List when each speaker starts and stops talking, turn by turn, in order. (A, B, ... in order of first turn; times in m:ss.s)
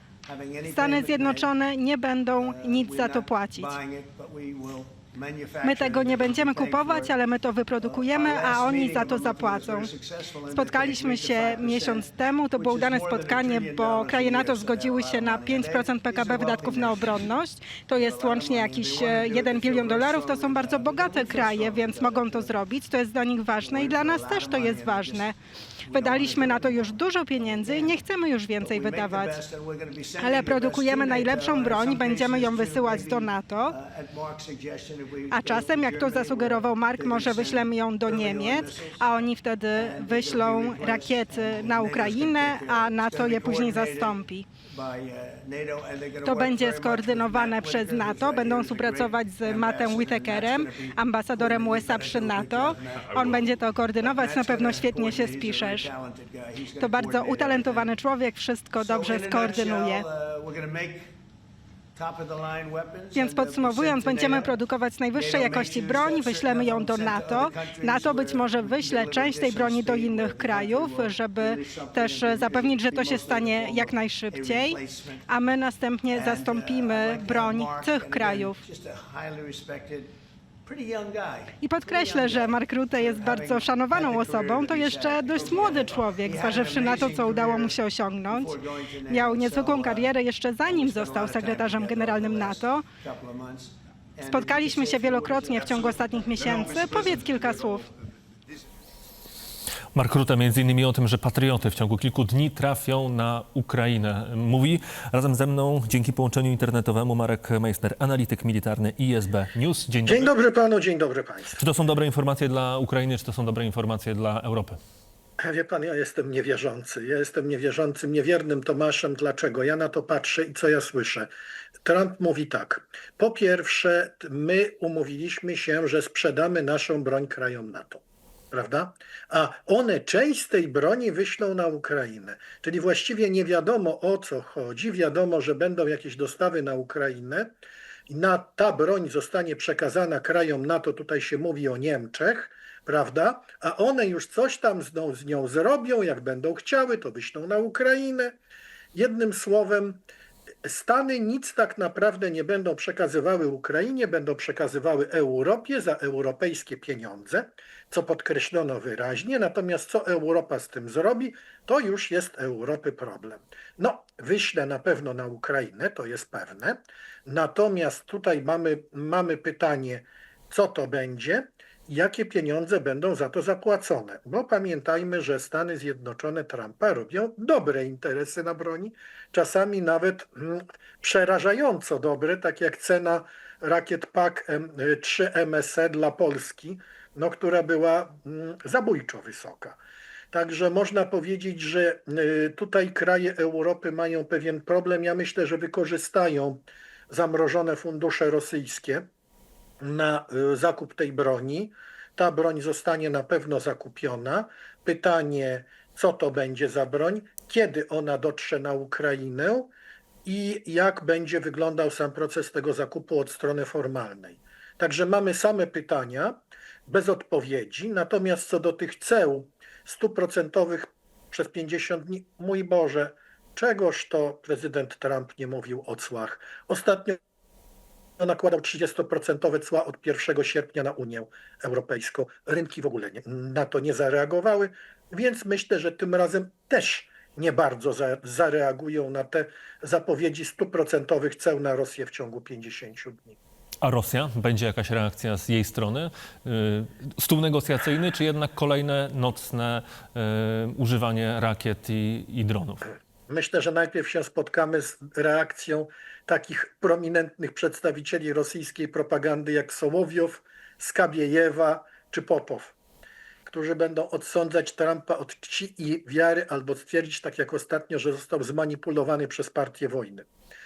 0:00.2-0:01.5 A
0:00.6-0:03.7 B
0:02.4-0:07.2 A
0:05.6-0:09.9 B
0:07.8-0:17.4 A
0:10.5-0:25.4 B
0:18.0-0:22.6 A
0:23.6-0:25.3 A
0:25.9-0:28.0 A
0:25.9-0:29.4 B
0:28.6-0:39.1 A
0:30.2-0:33.8 B
0:35.3-0:44.5 B
0:39.7-0:58.0 A
0:46.2-0:55.9 B
0:56.8-1:00.1 B
0:58.7-1:01.0 A
1:02.0-1:04.6 A
1:03.1-1:18.6 B
1:05.1-1:15.3 A
1:16.1-1:20.1 A
1:20.6-1:36.9 A
1:21.6-1:32.9 B
1:34.2-1:37.9 B
1:39.9-1:50.3 C
1:50.1-1:51.6 D
1:51.6-1:54.8 C
1:55.4-2:01.3 D
2:01.8-2:17.5 D
2:18.1-2:28.4 D
2:28.9-2:30.0 D
2:30.6-3:09.8 D
3:10.3-3:16.6 D
3:17.1-3:19.1 D
3:19.8-3:29.7 D
3:30.2-3:36.4 D
3:36.9-3:47.2 D
3:48.2-4:03.4 D
4:03.8-4:12.9 C
4:13.3-4:22.8 D
4:23.5-4:30.3 D